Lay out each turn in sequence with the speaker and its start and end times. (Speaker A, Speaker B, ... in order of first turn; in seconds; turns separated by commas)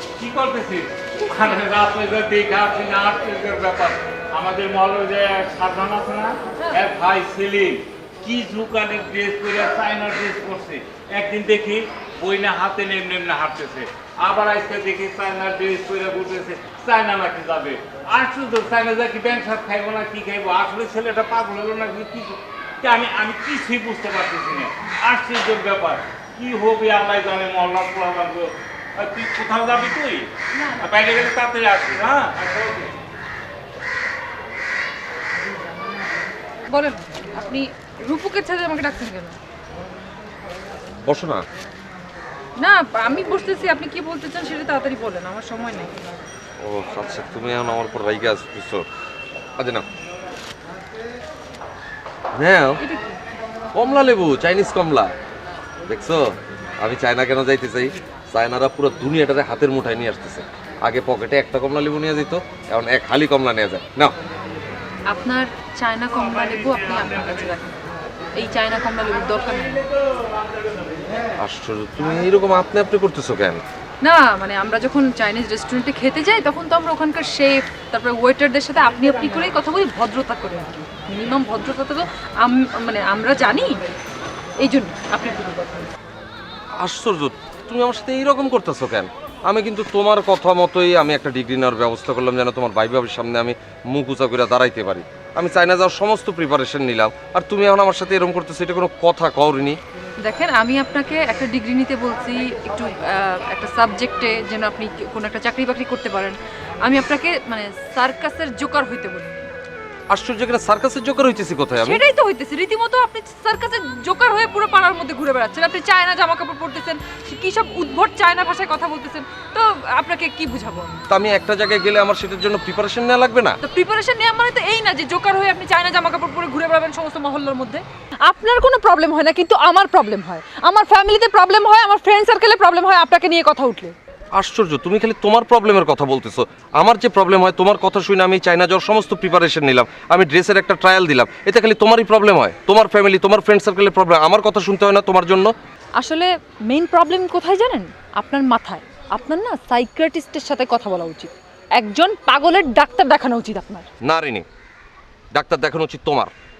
Speaker A: 0.1-32.9, Speaker B: 30.5-31.0, Speaker B: 36.7-39.4, Speaker C: 41.0-41.5, Speaker B: 42.6-46.0, Speaker C: 46.6-48.9, Speaker C: 49.6-49.8, Speaker C: 52.3-52.8, Speaker C: 53.8-55.1, Speaker C: 55.9-64.1, Speaker B: 65.1-67.8, Speaker B: 68.3-69.9, Speaker C: 71.4-73.6, Speaker B: 74.0-83.8, Speaker B: 84.6-85.9, Speaker C: 86.8-99.8, Speaker B: 100.2-109.5, Speaker C: 110.1-112.0, Speaker B: 111.8-120.9, Speaker C: 121.1-123.6, Speaker B: 123.6-133.9, Speaker C: 134.3-145.5, Speaker B: 145.9-153.9, Speaker C: 154.0-154.4, Speaker C: 155.3-156.3